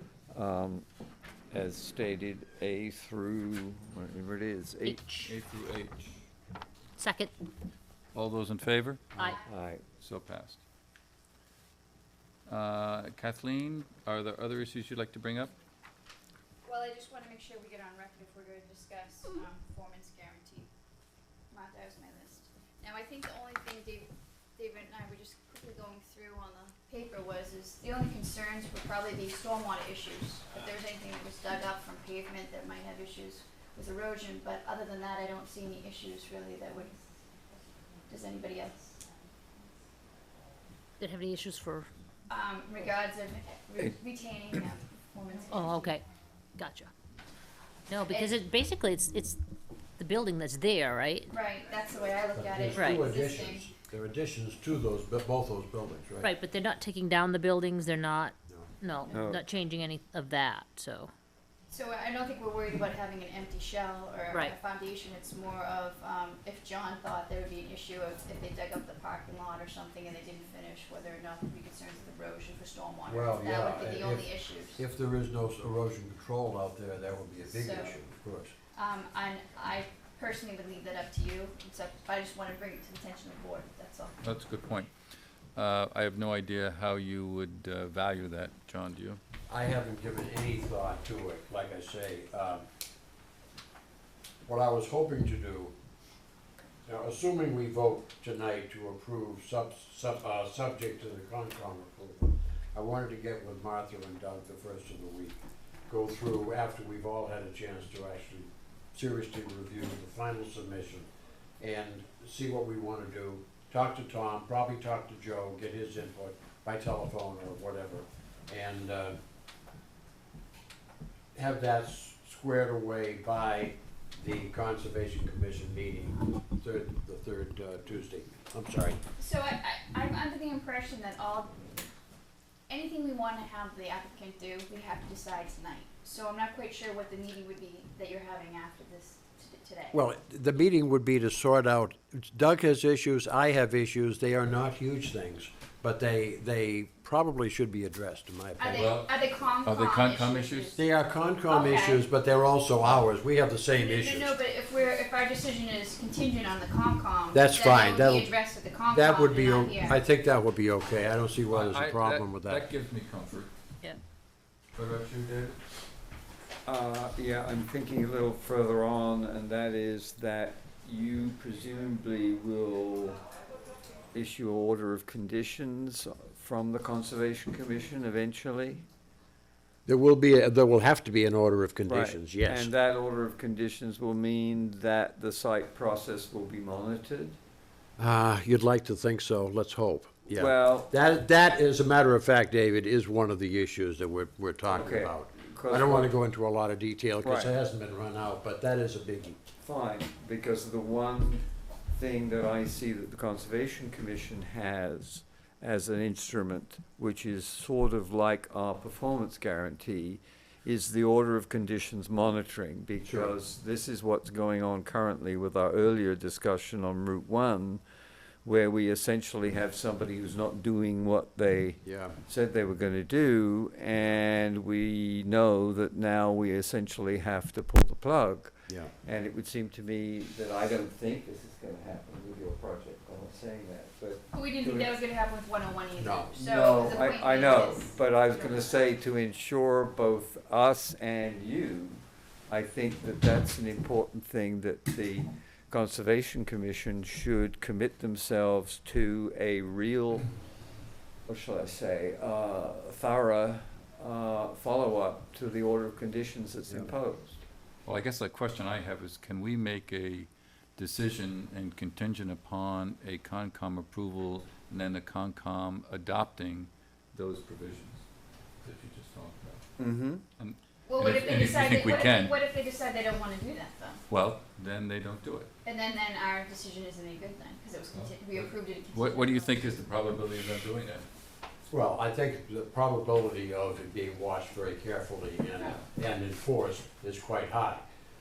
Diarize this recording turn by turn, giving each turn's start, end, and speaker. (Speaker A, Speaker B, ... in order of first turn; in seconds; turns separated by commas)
Speaker A: 0.3-0.9, Speaker A: 1.5-5.0, Speaker B: 4.8-5.4, Speaker C: 5.1-6.2, Speaker B: 7.0-7.3, Speaker C: 8.1-9.2, Speaker D: 9.2-9.5, Speaker A: 9.4-9.8, Speaker C: 10.0-10.6, Speaker C: 12.5-15.5, Speaker D: 16.6-20.7, Speaker D: 21.5-37.0, Speaker D: 38.1-39.0, Speaker B: 41.0-41.9, Speaker D: 42.3-46.0, Speaker B: 45.5-46.0, Speaker B: 46.5-46.9, Speaker B: 47.9-49.4, Speaker D: 48.1-48.4, Speaker B: 50.0-51.3, Speaker D: 51.3-53.7, Speaker E: 52.3-56.3, Speaker B: 52.7-53.0, Speaker B: 56.2-61.1, Speaker A: 59.1-59.4, Speaker D: 61.7-74.8, Speaker B: 64.3-64.6, Speaker E: 73.1-78.5, Speaker D: 77.5-78.0, Speaker D: 78.7-84.2, Speaker C: 84.2-84.9, Speaker C: 85.5-89.2, Speaker E: 89.5-92.7, Speaker E: 94.5-95.7, Speaker E: 96.9-111.1, Speaker E: 111.6-119.2, Speaker E: 121.3-129.0, Speaker D: 129.2-131.5, Speaker D: 132.7-139.9, Speaker E: 139.9-148.9, Speaker D: 148.6-150.9, Speaker C: 148.7-150.7, Speaker E: 150.8-154.4, Speaker D: 151.4-152.0, Speaker D: 153.8-160.0, Speaker E: 157.3-162.7, Speaker C: 161.5-163.5, Speaker C: 164.8-165.6, Speaker A: 166.6-173.2, Speaker A: 174.1-178.8, Speaker E: 179.8-182.7, Speaker A: 181.9-187.4, Speaker E: 188.0-199.4, Speaker A: 190.3-190.9, Speaker A: 194.7-196.1, Speaker A: 197.2-197.6, Speaker A: 199.6-217.8, Speaker E: 213.0-213.3, Speaker A: 218.4-235.0, Speaker E: 221.8-222.2, Speaker E: 228.7-228.9, Speaker D: 234.3-238.8, Speaker E: 235.9-236.3, Speaker A: 236.3-250.3, Speaker A: 251.2-257.4, Speaker C: 257.8-268.0, Speaker C: 268.6-269.6, Speaker A: 269.8-270.2, Speaker C: 270.4-272.3, Speaker D: 270.9-274.0, Speaker C: 274.1-275.5, Speaker D: 275.6-279.8, Speaker C: 277.9-281.1, Speaker E: 281.7-287.8